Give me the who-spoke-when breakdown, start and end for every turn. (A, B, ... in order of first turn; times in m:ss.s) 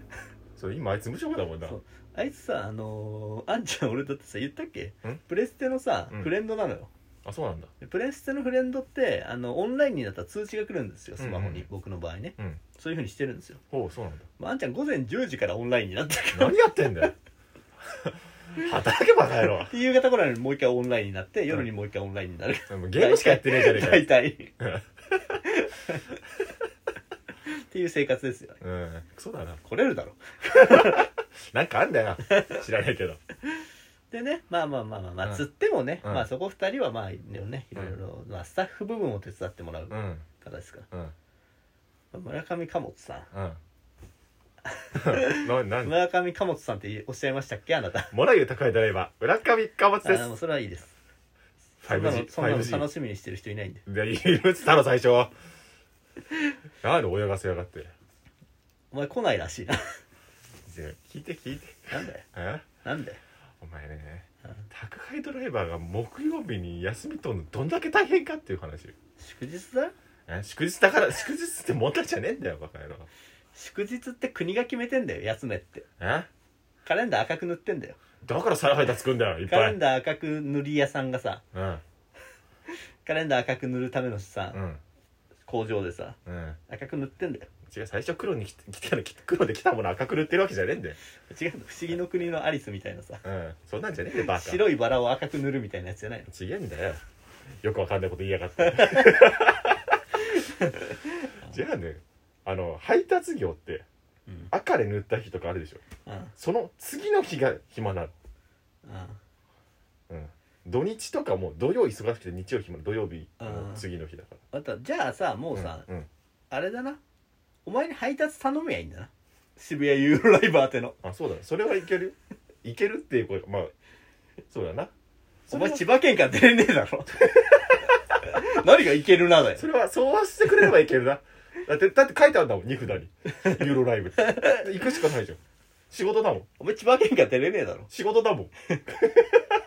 0:00.6-0:01.8 A
0:01.6-0:06.9 B
0:07.2-0:07.7 A
0:07.8-0:13.6 B
0:11.2-0:11.7 A
0:13.7-0:14.3 A
0:14.4-0:16.9 B
0:16.3-0:17.1 A
0:17.9-0:19.7 A
0:19.7-0:24.5 B
0:22.7-0:24.8 A
0:25.3-0:26.2 B
0:27.5-0:28.6 B
0:28.6-0:29.6 A
0:29.6-0:31.1 B
0:30.5-0:33.2 A
0:34.1-0:40.9 B
0:39.9-0:40.2 A
0:42.1-0:43.3 B
0:43.3-0:43.6 A
0:44.6-0:48.1 B
0:45.0-0:45.9 A
0:48.1-0:50.3 A
0:50.0-0:50.9 B
0:51.8-0:52.9 A
0:51.8-0:53.8 B
0:53.8-0:55.3 A
0:56.8-0:57.9 A
0:58.9-0:59.9 B
1:00.6-1:02.6 A
1:01.9-1:02.2 B
1:02.8-1:03.2 B
1:03.6-1:08.9 A
1:09.2-1:09.9 B
1:10.3-1:13.1 A
1:13.5-1:15.8 B
1:16.0-1:16.3 A
1:16.8-1:18.0 B
1:18.2-1:19.8 A
1:19.4-1:21.4 B
1:21.5-1:21.8 A
1:23.0-1:24.6 B
1:24.5-1:24.8 A
1:25.4-1:26.2 B
1:26.2-1:26.6 A
1:26.7-1:27.5 B
1:27.7-1:31.0 A
1:31.3-1:33.2 B
1:33.2-1:34.7 A
1:34.1-1:36.3 B
1:36.3-1:37.0 A
1:37.6-1:40.0 A
1:38.7-1:39.1 B
1:40.4-1:40.9 B
1:41.4-1:43.8 A
1:44.5-1:45.8 A
1:46.0-1:46.3 B
1:46.4-1:48.1 A
1:48.8-1:49.2 B
1:50.1-1:54.4 A
1:53.4-1:53.8 B
1:54.5-1:55.8 B
1:55.5-1:56.1 A
1:56.5-1:57.0 B
1:57.6-2:01.0 B
2:01.0-2:03.7 A
2:04.5-2:04.9 A
2:05.5-2:05.8 A
2:05.5-2:09.6 B
2:09.6-2:15.4 A
2:14.3-2:14.6 B
2:15.9-2:16.5 A
2:16.6-2:17.9 B
2:17.9-2:18.5 A
2:18.8-2:19.4 B